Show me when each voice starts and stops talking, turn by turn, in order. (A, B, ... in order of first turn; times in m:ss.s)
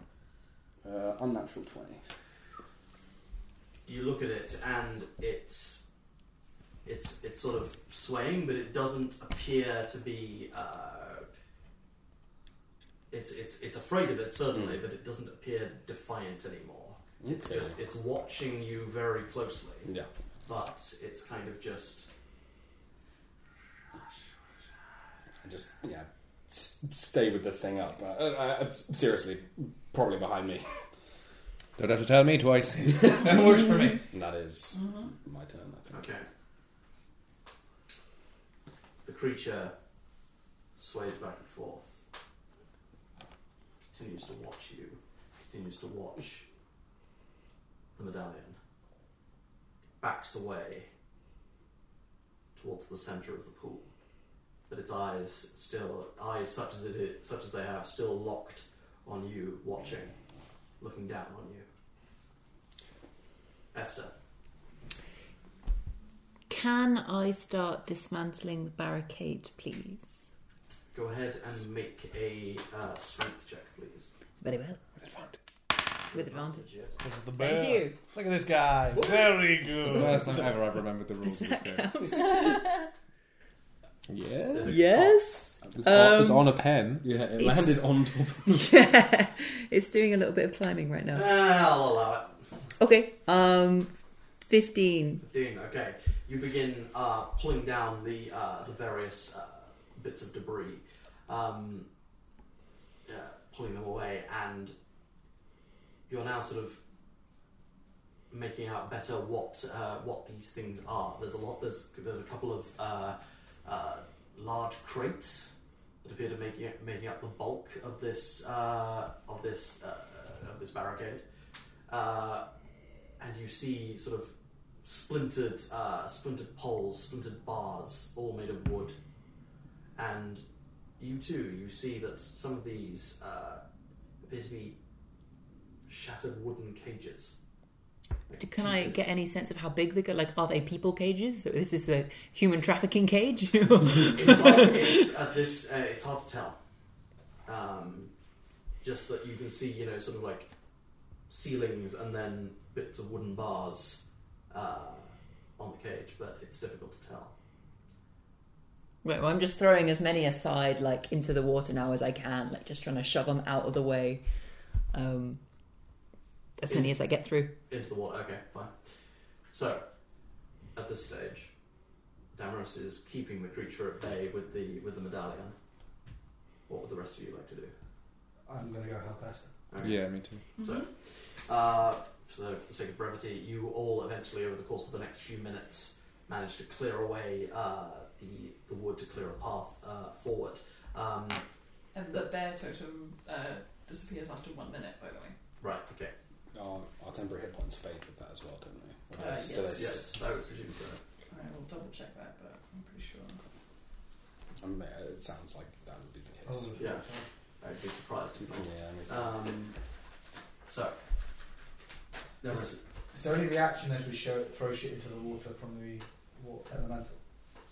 0:00.8-0:02.0 A
0:03.9-0:05.8 B
0:06.9-0:11.3 B
0:13.1-0:19.9 B
0:14.5-0:14.8 A
0:17.2-0:17.8 A
0:20.4-0:22.1 B
0:25.4-0:30.7 A
0:31.8-0:33.3 C
0:32.8-0:33.5 A
0:33.2-0:34.0 D
0:34.1-0:36.1 A
0:34.7-0:35.1 E
0:35.9-0:36.3 B
0:39.0-0:39.7 B
0:40.8-0:42.0 B
0:43.9-0:46.4 B
0:48.0-0:48.6 B
0:50.0-0:50.9 B
0:52.6-0:53.9 B
0:54.7-1:00.1 B
1:00.8-1:01.6 B
1:03.7-1:04.1 B
1:06.5-1:10.3 F
1:10.9-1:14.1 B
1:14.4-1:14.8 F
1:15.0-1:15.4 C
1:16.1-1:16.7 F
1:16.1-1:17.0 B
1:17.0-1:20.5 D
1:17.4-1:18.0 F
1:19.8-1:21.9 C
1:21.2-1:22.9 F
1:24.1-1:24.7 C
1:24.5-1:25.2 B
1:24.6-1:26.6 F
1:25.7-1:27.1 C
1:27.0-1:28.7 A
1:27.4-1:27.9 F
1:28.5-1:31.4 F
1:31.1-1:32.4 B
1:32.8-1:33.9 F
1:34.5-1:35.2 F
1:35.2-1:41.9 B
1:43.1-1:44.7 B
1:46.1-1:46.8 B
1:48.3-1:55.5 B
1:56.0-2:01.2 B
2:01.9-2:02.4 B
2:03.2-2:04.3 B
2:04.8-2:09.0 B
2:10.0-2:10.4 B
2:11.0-2:13.6 B
2:14.2-2:14.8 B
2:15.9-2:17.4 B
2:18.3-2:19.0 B
2:18.4-2:24.7 F
2:24.1-2:26.6 B
2:27.4-2:28.1 B
2:28.8-2:30.5 B
2:31.3-2:37.3 B
2:39.0-2:44.2 F
2:44.9-2:45.4 F
2:46.6-2:47.5 F
2:46.7-2:47.0 B
2:47.6-2:48.9 B
2:49.5-2:49.9 B
2:50.7-2:51.5 B
2:52.4-2:55.6 B
2:56.7-2:57.7 B
2:58.5-2:59.5 D
2:59.7-3:11.4 B
2:59.8-3:00.4 C
3:00.6-3:00.9 E
3:11.9-3:15.4 E
3:15.6-3:16.1 B
3:16.5-3:20.4 A
3:19.1-3:20.0 E
3:19.7-3:21.0 B
3:21.3-3:23.4 E
3:24.6-3:26.7 A
3:26.5-3:27.2 D
3:26.8-3:27.1 B
3:27.6-3:29.8 B
3:28.5-3:29.3 A
3:30.7-3:31.0 B
3:32.4-3:32.8 B
3:33.1-3:37.2 D